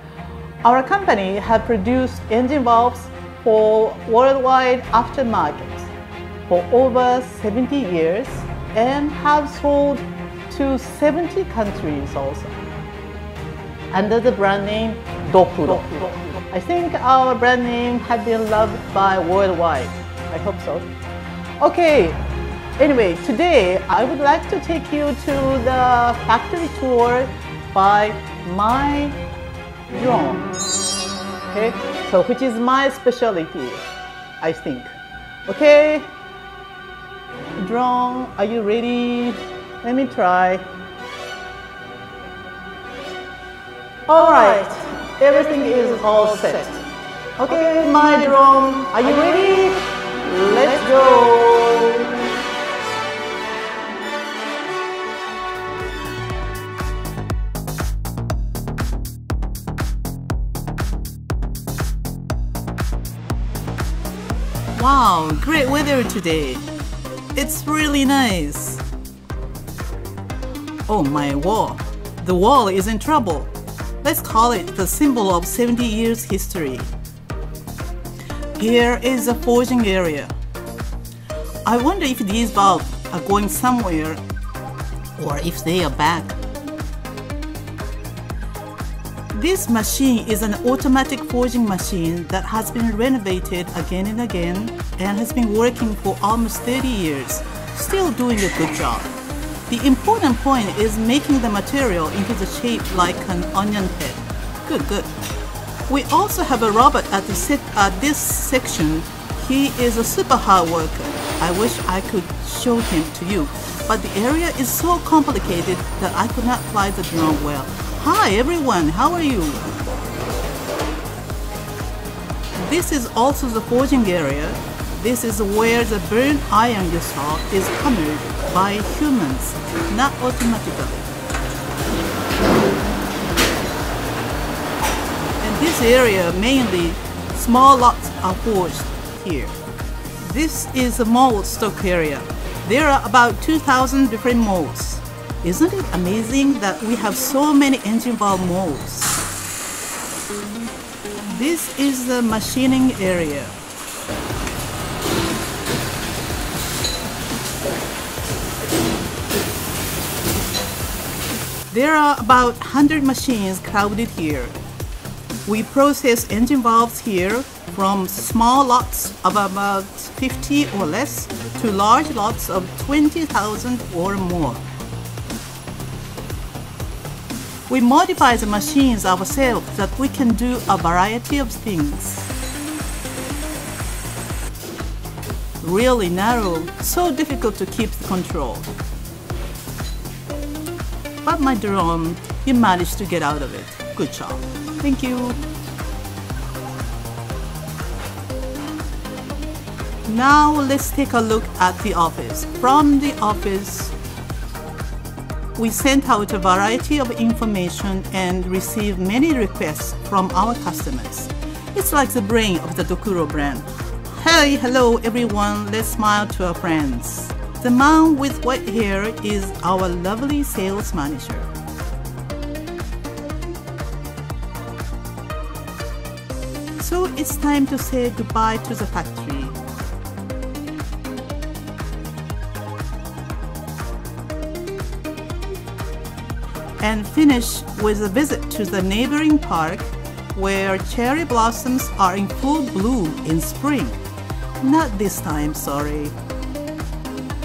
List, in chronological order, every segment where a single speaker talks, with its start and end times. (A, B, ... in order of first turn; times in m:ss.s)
0:00.6-0:05.9 A
0:06.5-0:12.6 A
0:13.9-0:20.9 A
0:21.6-0:22.2 A
0:22.8-0:29.2 A
0:29.9-0:30.5 A
0:31.5-0:33.8 A
0:34.4-0:34.9 A
0:35.5-0:36.1 A
0:37.6-0:40.6 A
0:44.1-0:46.8 A
0:47.4-0:52.3 A
1:04.7-1:06.7 A
1:07.3-1:08.8 A
1:10.9-1:16.9 A
1:18.6-1:20.3 A
1:21.6-1:24.2 A
1:25.2-1:26.4 A
1:29.3-1:39.1 A
1:39.7-1:45.1 A
1:45.9-1:59.7 A
2:02.6-2:11.1 A
2:15.4-2:19.6 A
2:20.2-2:29.2 A
2:31.2-2:33.6 A
2:41.7-2:44.6 A
2:45.4-2:54.6 A
2:57.7-3:02.3 A
3:05.6-3:08.7 A
3:11.2-3:15.4 A
3:20.0-3:23.9 A
3:25.6-3:41.5 A
3:46.8-3:49.6 A
3:56.8-4:04.0 A
4:04.6-4:06.2 A